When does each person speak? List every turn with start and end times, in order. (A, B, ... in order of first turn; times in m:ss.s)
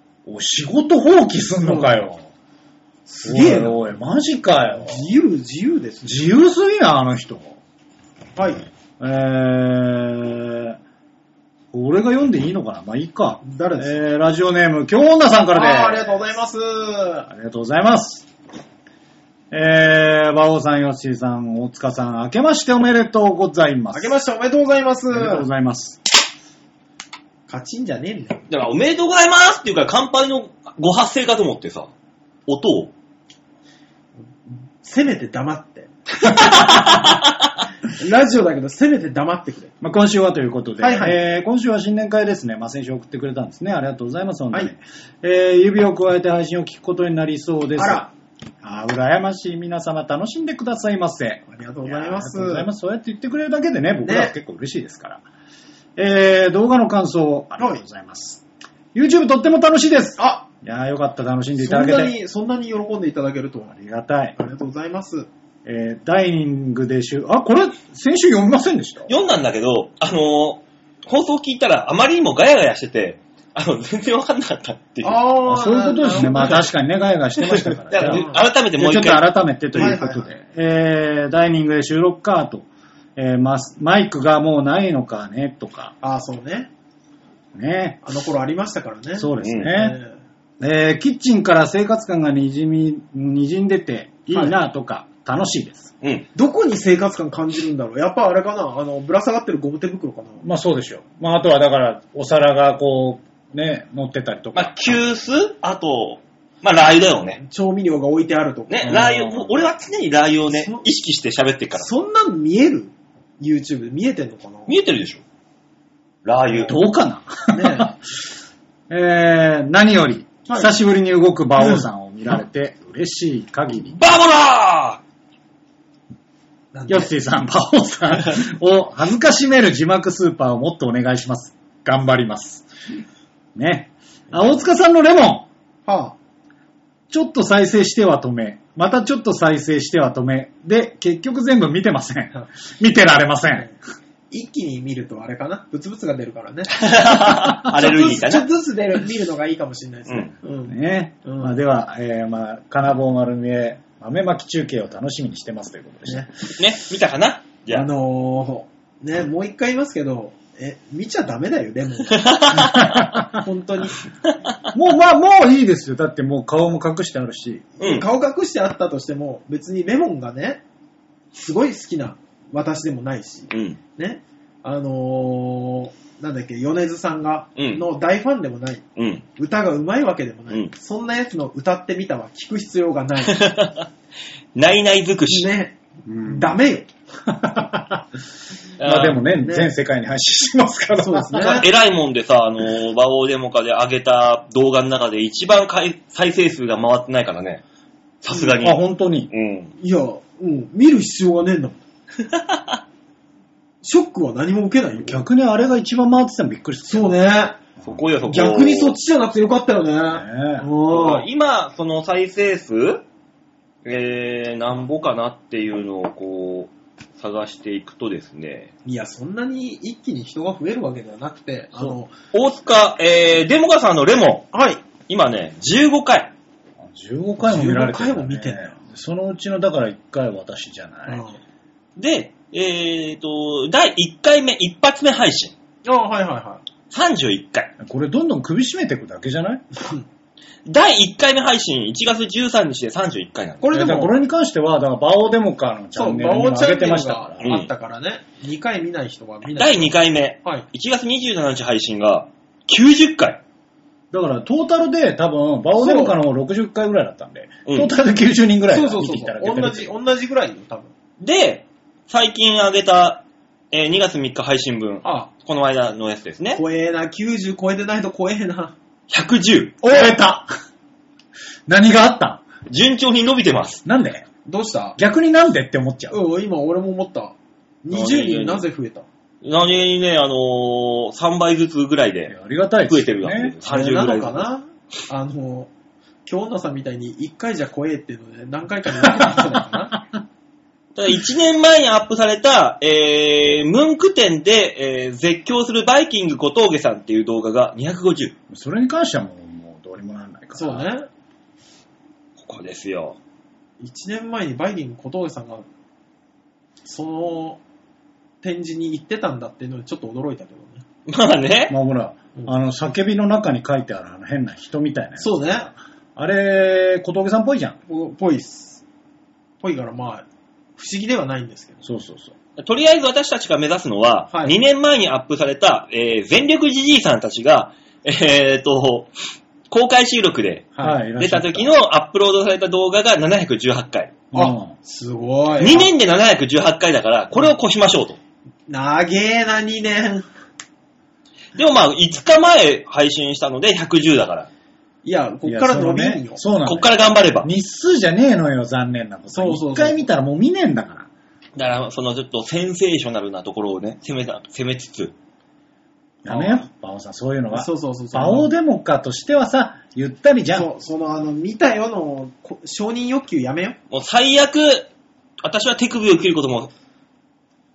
0:00.2-0:02.2 A
0:01.6-0:02.0 B
0:03.1-0:03.8 B
0:03.2-0:05.0 A
0:04.7-0:06.2 B
0:06.0-0:07.6 A
0:08.4-0:08.7 B
0:09.0-0:10.8 A
0:11.7-0:16.2 A
0:13.4-0:14.0 B
0:15.5-0:17.3 B
0:17.3-0:18.3 A
0:19.5-0:24.1 A
0:23.9-0:25.5 B
0:25.1-0:26.0 A
0:27.5-0:28.5 B
0:28.5-0:31.9 C
0:32.5-0:32.9 C
0:34.5-0:37.1 B
0:37.8-0:39.7 B
0:39.8-0:48.0 A
0:40.8-0:41.2 B
0:47.8-0:48.1 B
0:48.6-0:55.2 A
0:51.5-0:52.7 B
0:54.0-0:54.3 B
0:56.0-0:58.4 A
0:58.9-1:02.1 A
1:00.2-1:00.5 B
1:01.6-1:03.7 B
1:03.7-1:04.4 A
1:04.4-1:05.3 B
1:05.6-1:09.1 A
1:09.1-1:15.2 C
1:15.0-1:16.6 B
1:15.4-1:25.9 A
1:17.4-1:20.0 C
1:18.1-1:18.4 B
1:19.7-1:20.3 B
1:26.0-1:26.7 B
1:27.5-1:28.0 A
1:28.0-1:30.1 B
1:29.2-1:30.0 A
1:29.4-1:29.7 C
1:30.6-1:35.9 A
1:36.0-1:36.3 C
1:36.3-1:40.4 B
1:40.4-1:45.0 A
1:44.5-1:47.4 C
1:47.4-1:49.0 B
1:48.7-1:51.9 C
1:48.8-1:49.5 A
1:50.5-1:50.8 B
1:51.7-1:54.8 B
1:54.7-1:55.2 C
1:56.2-1:56.8 C
1:56.6-1:57.9 A
1:57.5-1:57.9 B
1:58.9-2:04.0 A
2:00.5-2:00.7 B
2:03.8-2:05.0 C
2:06.7-2:07.1 B
2:06.9-2:12.6 A
2:13.5-2:15.5 A
2:15.8-2:16.2 B
2:17.1-2:23.7 A
2:24.3-2:31.6 B
2:26.7-2:28.5 C
2:30.7-2:36.3 A
2:36.6-2:37.9 C
2:37.7-2:44.0 B
2:42.1-2:42.9 C
2:42.6-2:43.4 A
2:44.7-2:47.6 A
2:47.8-2:50.6 B
2:47.8-2:48.0 C
2:51.3-3:03.5 B
2:53.5-2:53.8 C
2:57.6-2:57.8 C
2:59.0-2:59.2 C
3:03.2-3:03.9 C
3:04.5-3:05.5 C
3:05.3-3:06.9 B
3:06.0-3:06.6 A
3:07.2-3:08.0 A
3:08.8-3:09.2 C
3:08.8-3:11.4 A
3:09.4-3:09.7 B
3:11.0-3:11.7 B
3:11.3-3:17.6 C
3:18.2-3:19.7 C
3:18.6-3:19.3 A
3:19.8-3:21.8 B
3:23.8-3:25.2 B
3:25.0-3:27.2 A
3:26.9-3:27.6 B
3:27.8-3:28.0 A
3:27.8-3:29.0 C
3:28.3-3:31.3 B
3:30.1-3:30.7 A
3:30.9-3:33.0 C
3:33.8-3:38.7 C
3:38.8-3:42.1 B
3:41.8-3:44.5 C
3:44.5-3:44.8 B
3:45.1-3:46.3 C
3:46.8-3:51.2 A
3:47.4-3:48.7 B
3:51.1-3:51.4 B
3:52.0-3:55.5 C
3:55.8-3:56.6 B
3:56.9-3:57.7 C
3:57.8-3:59.6 A
3:59.7-4:00.0 B
4:00.6-4:03.6 C
4:03.6-4:04.1 B
4:03.7-4:07.5 A
4:05.9-4:10.6 B
4:07.4-4:07.7 C
4:09.5-4:13.4 C
4:14.1-4:19.9 A
4:15.8-4:16.2 B
4:17.6-4:17.9 C
4:18.7-4:20.9 B
4:21.2-4:26.6 C
4:25.0-4:25.3 B
4:26.5-4:28.7 B
4:29.1-4:29.8 C
4:29.8-4:30.5 A
4:31.7-4:32.4 A
4:32.7-4:33.8 C
4:33.8-4:34.2 A
4:34.4-4:35.0 B
4:35.0-4:36.2 A
4:36.1-4:39.0 B
4:37.9-4:38.6 C
4:39.4-4:42.3 C
4:42.3-4:43.6 A
4:42.9-4:44.5 C
4:43.6-4:45.7 B
4:46.2-4:50.0 B
4:51.0-4:58.3 C
4:58.5-5:00.8 A
5:00.5-5:01.1 B
5:02.4-5:03.2 C
5:03.8-5:05.6 B
5:06.8-5:07.6 B
5:08.4-5:10.8 B
5:11.0-5:11.7 C
5:11.7-5:15.4 A
5:15.2-5:15.7 B
5:16.2-5:17.8 A
5:17.9-5:18.8 B
5:19.6-5:21.8 B
5:21.8-5:22.3 A
5:22.6-5:29.1 C
5:24.3-5:24.6 B
5:29.7-5:34.1 C
5:30.8-5:31.7 A
5:34.3-5:34.7 A
5:34.3-5:35.9 B
5:35.6-5:38.2 C
5:38.7-5:40.3 B
5:41.5-5:44.5 C
5:45.0-5:46.4 B
5:45.4-5:46.9 A
5:46.6-5:47.5 C
5:47.4-5:51.1 A
5:49.3-5:50.1 B
5:51.6-5:55.1 C
5:56.2-6:00.7 A
5:56.3-5:56.6 B
5:57.5-5:58.5 B
6:00.5-6:03.8 B
6:03.9-6:04.9 C
6:05.4-6:06.7 C